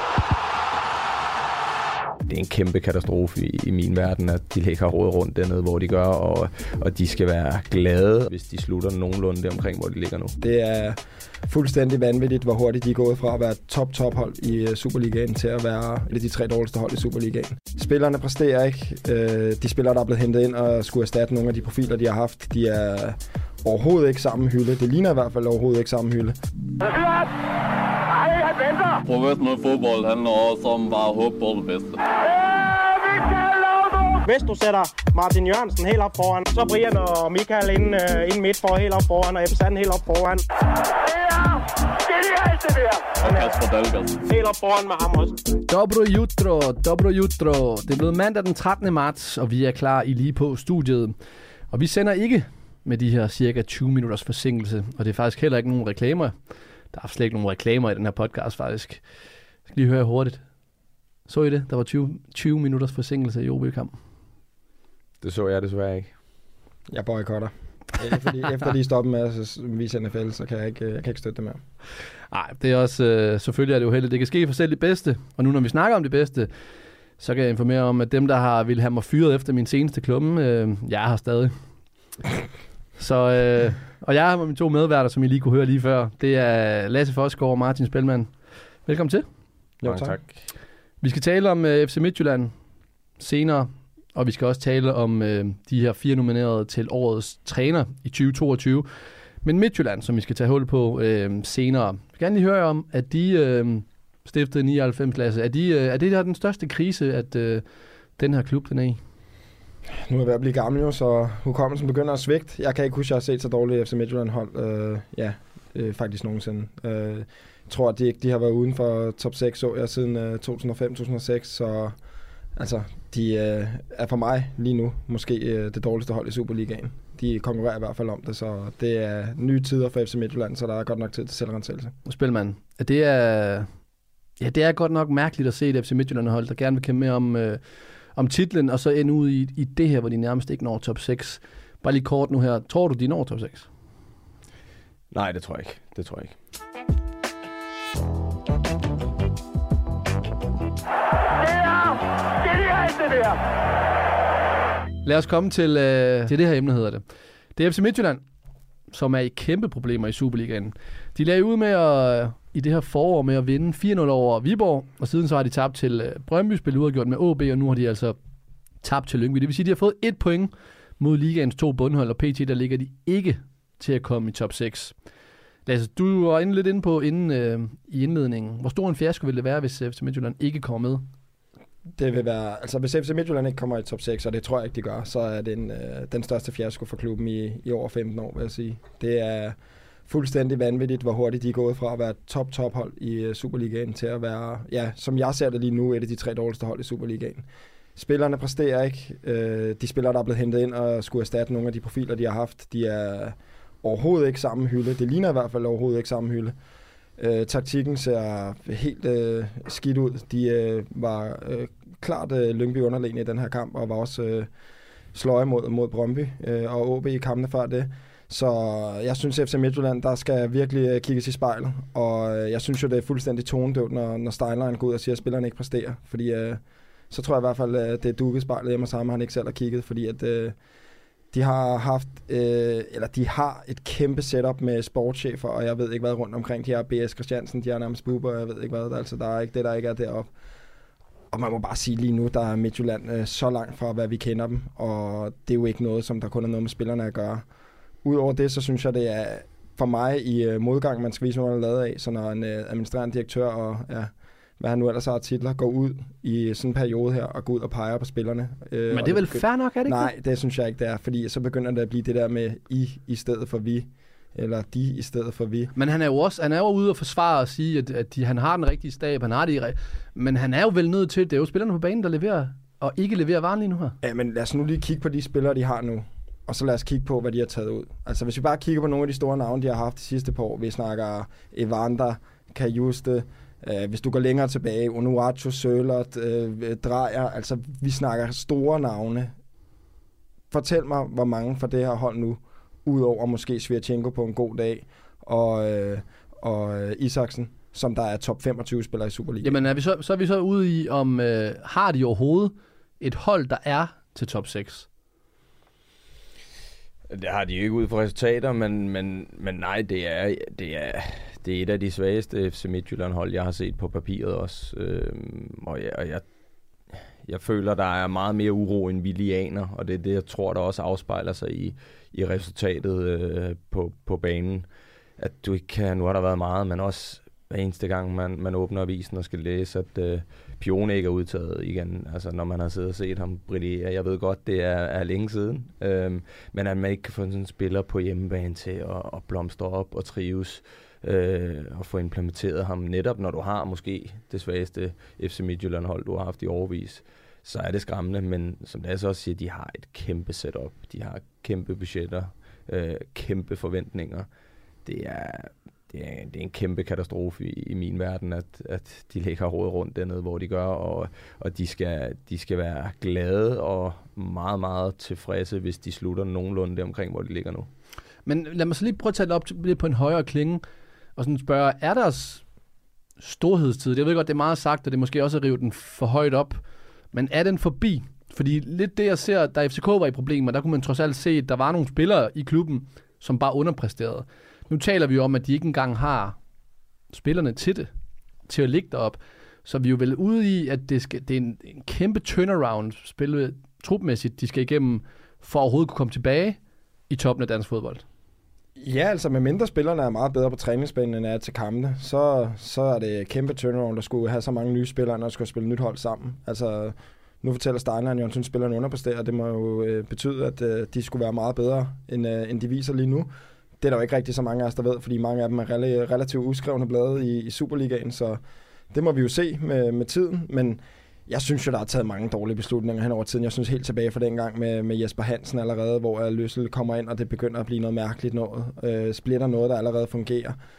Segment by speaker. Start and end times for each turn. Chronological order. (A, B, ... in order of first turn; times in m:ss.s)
0:02.3-0:10.4 A
0:10.4-0:26.4 B
0:26.8-0:27.2 C
0:28.1-0:29.0 C
0:29.0-0:32.0 D
0:32.7-0:40.4 C
0:41.1-0:43.5 C
0:43.2-0:44.2 D
0:44.2-0:45.4 C
0:45.7-0:51.1 E
0:51.7-0:56.3 E
0:56.9-0:59.0 E
0:59.7-1:00.4 E
1:01.3-1:04.0 E
1:05.2-1:06.1 A
1:06.9-1:11.6 B
1:12.3-1:16.5 E
1:17.2-1:21.6 E
1:23.0-1:28.3 E
1:28.8-1:29.2 E
1:29.8-1:30.2 B
1:29.8-1:30.4 A
1:31.0-1:32.5 E
1:33.2-1:38.9 E
1:39.4-1:47.6 E
1:48.2-1:49.0 E
1:49.9-2:02.0 B
2:02.6-2:11.9 B
2:12.0-2:13.7 E
2:14.4-2:17.6 E
2:18.1-2:23.7 E
2:25.1-2:26.4 A
2:31.5-2:31.8 C
2:32.5-2:33.4 C
2:35.0-2:37.0 E
2:37.6-2:38.2 E
2:38.9-2:48.2 E
2:48.8-2:54.9 E
2:55.6-3:01.0 E
3:01.9-3:26.5 B
3:27.2-3:34.5 B
3:35.1-3:50.6 B
3:51.3-4:00.3 B
4:01.3-4:07.4 B
4:08.0-4:25.7 B
4:18.9-4:20.1 E
4:25.7-4:34.0 E
4:34.0-4:49.3 B
4:50.5-4:59.6 B
4:59.4-5:04.9 E
5:07.1-5:16.2 A
5:17.2-5:24.6 A
5:25.2-5:54.3 A
5:54.8-6:07.7 A
6:08.2-6:10.6 E
6:11.2-6:12.4 E
6:13.2-6:16.6 E
6:17.1-6:26.4 E
6:27.1-6:27.9 E
6:28.5-6:36.6 E
6:37.1-6:38.0 E
6:38.8-6:53.3 B
6:53.8-7:10.6 B